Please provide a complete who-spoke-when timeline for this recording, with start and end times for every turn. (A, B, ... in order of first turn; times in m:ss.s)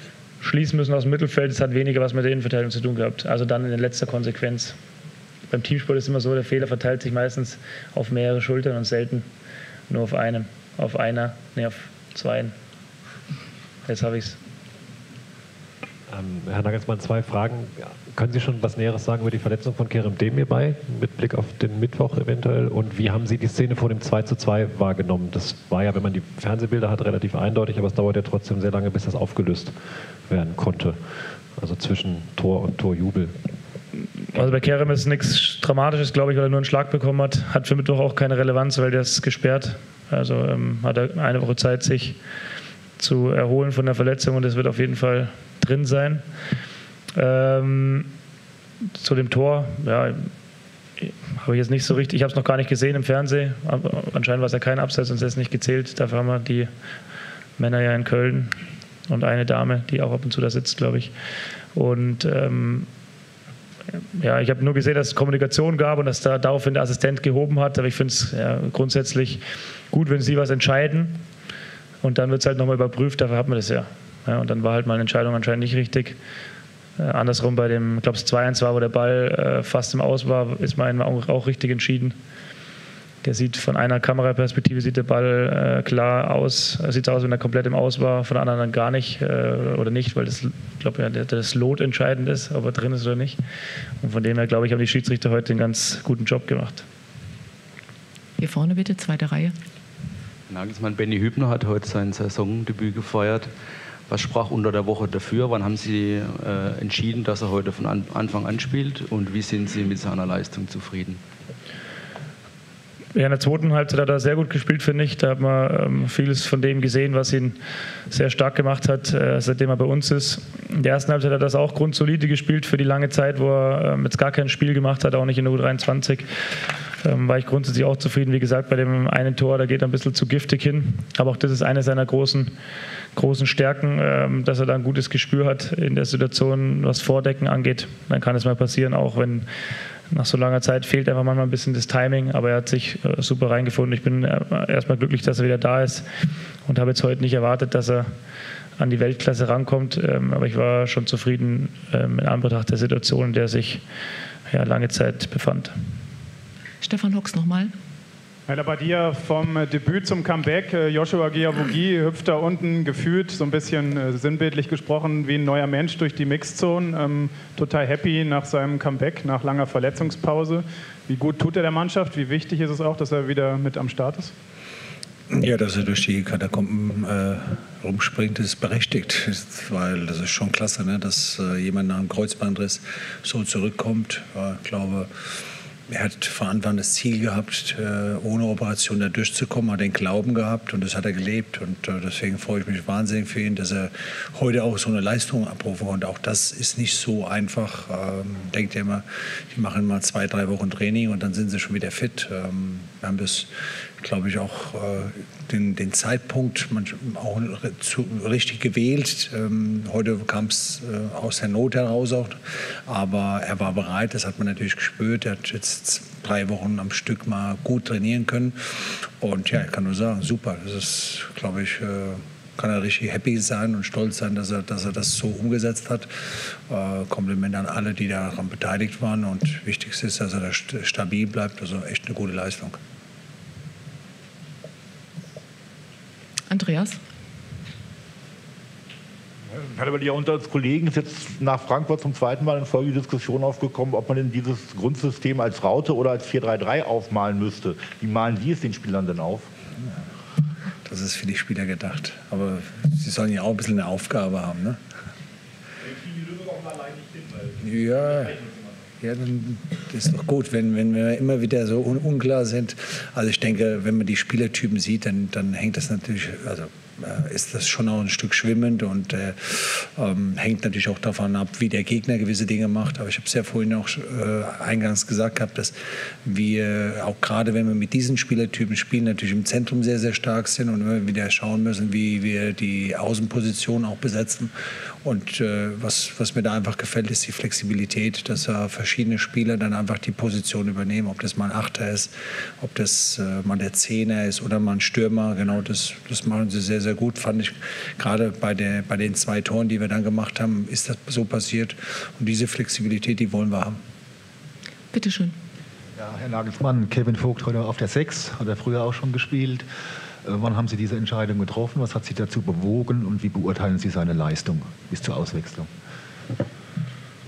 0:00.4-0:04.8 A
0:05.5-0:09.3 A
0:09.9-0:12.5 A
0:13.9-0:14.4 A
0:16.1-0:29.7 B
0:30.3-0:31.0 B
0:31.6-0:33.3 B
0:34.3-0:42.2 A
0:43.0-0:46.2 A
0:47.2-0:48.1 A
0:49.0-0:50.3 A
0:51.0-0:56.7 A
0:57.6-0:58.5 A
0:59.1-1:01.1 A
1:01.7-1:02.9 A
1:04.2-1:11.2 A
1:12.0-1:16.2 A
1:17.0-1:22.2 A
1:23.2-1:33.4 A
1:34.0-1:36.8 A
1:38.4-1:39.6 C
1:40.5-1:43.5 D
1:44.1-1:51.2 D
1:53.1-1:57.6 A
1:58.1-2:06.3 A
2:07.0-2:12.5 A
2:13.2-2:19.5 A
2:20.1-2:26.1 A
2:26.7-2:28.1 A
2:28.8-2:33.8 A
2:34.5-2:35.7 A
2:36.8-2:37.7 C
2:38.5-2:54.3 E
2:55.3-3:05.1 F
3:05.9-3:23.5 F
3:24.0-3:46.1 F
3:46.7-3:52.8 F
3:56.5-3:57.0 C
3:59.6-4:09.5 G
4:10.8-4:14.8 F
4:15.8-4:17.6 G
4:17.6-4:18.4 F
4:19.0-4:35.7 F
4:36.2-4:44.5 F
4:45.0-5:03.8 F
5:04.9-5:05.4 C
5:06.0-5:09.7 H
5:10.2-5:15.7 H